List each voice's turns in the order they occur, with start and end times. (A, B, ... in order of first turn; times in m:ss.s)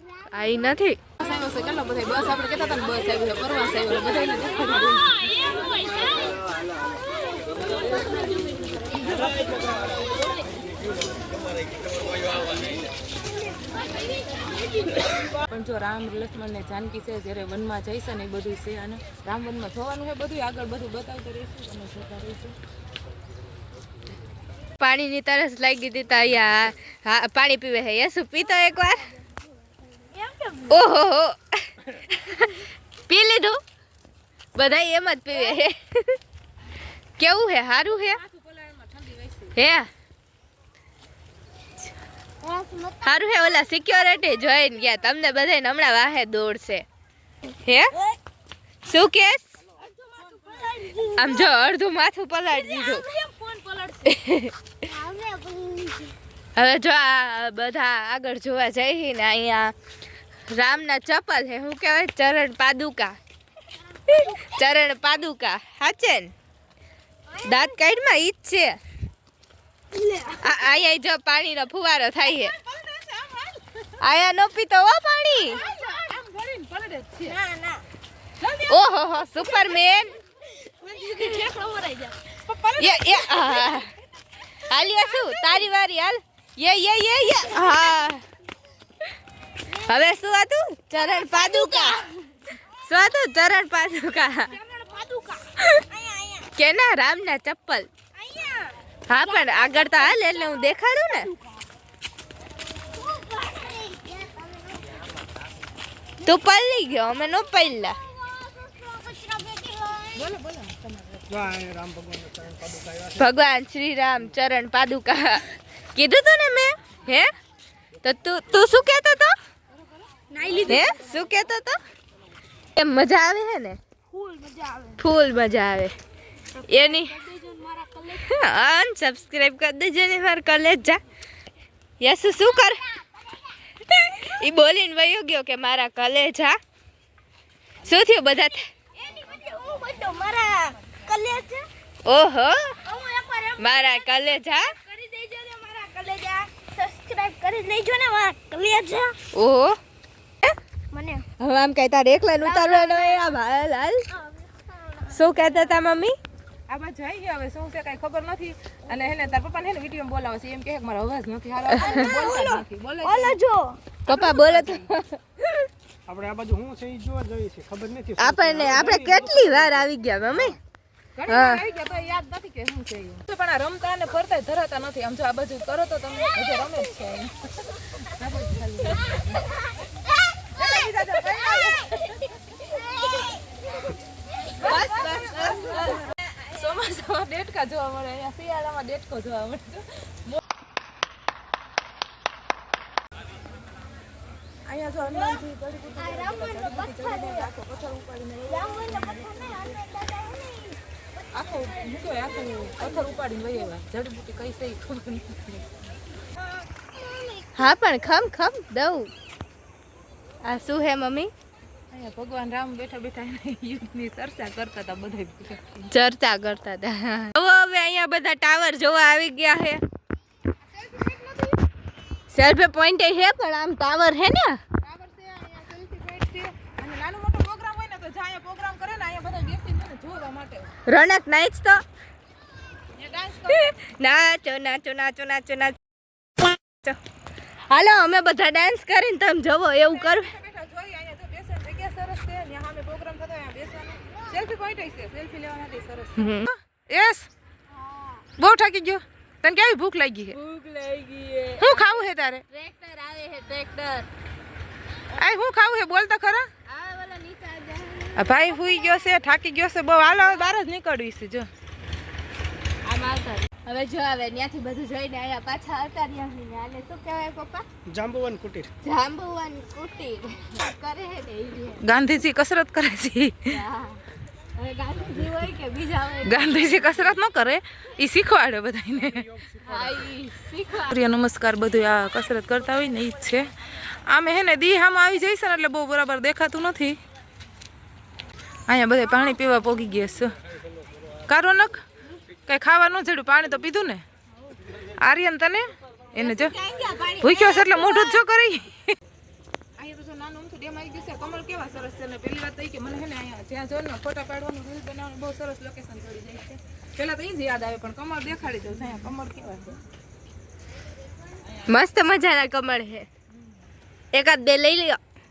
0:00.3-0:01.0 A
0:01.2-0:05.3 B
0:05.8-0:06.3 C
0:08.9-0:09.2 B
0:15.4-0:22.5 B
0:24.8-0:29.1 A
0:30.0-0:30.9 C
0:30.7-0:33.6 A
0:34.5-0:36.2 A
0:37.2-0:38.2 A
0:37.8-0:39.6 B
0:39.5-0:39.9 A
0:42.4-0:44.1 C
0:43.0-0:46.8 A
0:47.6-0:48.0 A
0:48.8-0:49.6 A
0:49.8-0:51.5 C
0:51.2-0:53.1 A
0:52.5-0:54.1 C
0:54.0-0:54.5 A
0:54.8-0:56.2 C
0:56.6-0:59.7 A
1:00.5-1:03.2 A
1:04.0-1:04.6 C
1:04.1-1:06.3 A
1:07.3-1:07.8 C
1:07.4-1:08.8 A
1:09.9-1:10.6 C
1:10.4-1:12.5 A
1:12.2-1:13.9 B
1:14.0-1:15.6 A
1:15.5-1:17.4 B
1:17.2-1:17.8 C
1:18.4-1:18.8 B
1:18.7-1:20.1 A
1:19.3-1:19.8 C
1:20.6-1:22.2 C
1:22.4-1:23.7 B
1:22.8-1:23.9 A
1:24.7-1:28.2 A
1:24.8-1:25.6 C
1:27.6-1:27.9 C
1:29.7-1:30.0 C
1:29.8-1:32.1 A
1:30.9-1:32.3 C
1:32.8-1:34.6 A
1:34.5-1:36.5 C
1:36.6-1:37.9 A
1:38.1-1:40.7 C
1:39.1-1:41.3 A
1:41.3-1:41.6 C
1:42.9-1:45.0 C
1:46.2-1:48.0 A
1:47.2-1:50.2 C
1:50.1-1:51.3 B
1:51.3-1:53.2 D
1:53.2-1:57.3 A
1:58.0-1:59.3 A
2:00.3-2:01.1 C
2:00.7-2:01.8 A
2:02.8-2:03.8 A
2:04.1-2:05.0 C
2:05.0-2:05.9 A
2:06.5-2:08.4 C
2:06.7-2:07.2 A
2:08.2-2:11.0 A
2:12.0-2:12.8 A
2:13.9-2:16.6 A
2:17.8-2:18.6 A
2:19.0-2:21.7 C
2:22.0-2:22.8 A
2:22.8-2:29.2 C
2:23.6-2:24.7 A
2:29.3-2:29.8 A
2:30.9-2:31.2 C
2:31.4-2:34.0 A
2:32.4-2:33.4 C
2:34.1-2:35.8 C
2:35.1-2:36.2 A
2:36.7-2:43.4 B
2:41.7-2:42.0 A
2:41.8-2:43.8 C
2:44.1-2:44.9 B
2:44.1-2:45.6 A
2:46.0-2:50.5 D
2:48.2-2:50.6 A
2:51.2-2:59.4 B
2:51.3-2:51.6 A
3:00.6-3:02.3 B
3:02.7-3:03.4 C
3:04.5-3:10.4 B
3:04.6-3:06.0 A
3:04.7-3:06.0 C
3:14.6-3:19.7 B
3:15.0-3:15.4 C
3:16.0-3:17.5 C
3:18.5-3:20.8 C
3:21.3-3:25.8 B
3:26.8-3:27.8 C
3:27.6-3:29.1 A
3:30.4-3:31.3 A
3:31.9-3:35.9 B
3:35.9-3:39.8 A
3:40.6-3:41.6 B
3:42.3-3:44.6 A
3:44.8-3:50.7 B
3:50.9-3:51.8 A
3:53.0-3:53.7 B
3:53.5-3:55.8 A
3:56.4-3:57.0 A
3:57.7-4:00.3 A
3:59.8-4:07.3 B
4:06.2-4:06.5 A
4:07.8-4:08.2 C
4:08.4-4:10.4 B
4:10.3-4:14.1 A
4:11.6-4:12.4 B
4:15.1-4:16.5 B
4:16.6-4:19.0 A
4:18.2-4:21.5 B
4:20.0-4:20.5 A
4:22.8-4:27.6 A
4:27.8-4:28.7 D
4:28.8-4:31.8 A
4:31.8-4:33.6 B
4:33.5-4:34.0 A
4:34.6-4:37.2 A
4:36.2-4:39.4 B
4:39.6-4:41.0 A
4:40.8-4:47.0 B
4:48.7-4:50.3 B
4:51.3-4:51.8 B
4:52.4-4:54.0 B
4:54.9-4:56.5 B
4:56.1-4:58.2 A
4:57.2-4:59.0 B
4:59.8-5:09.8 B
5:11.6-5:13.1 A
5:14.1-5:15.0 A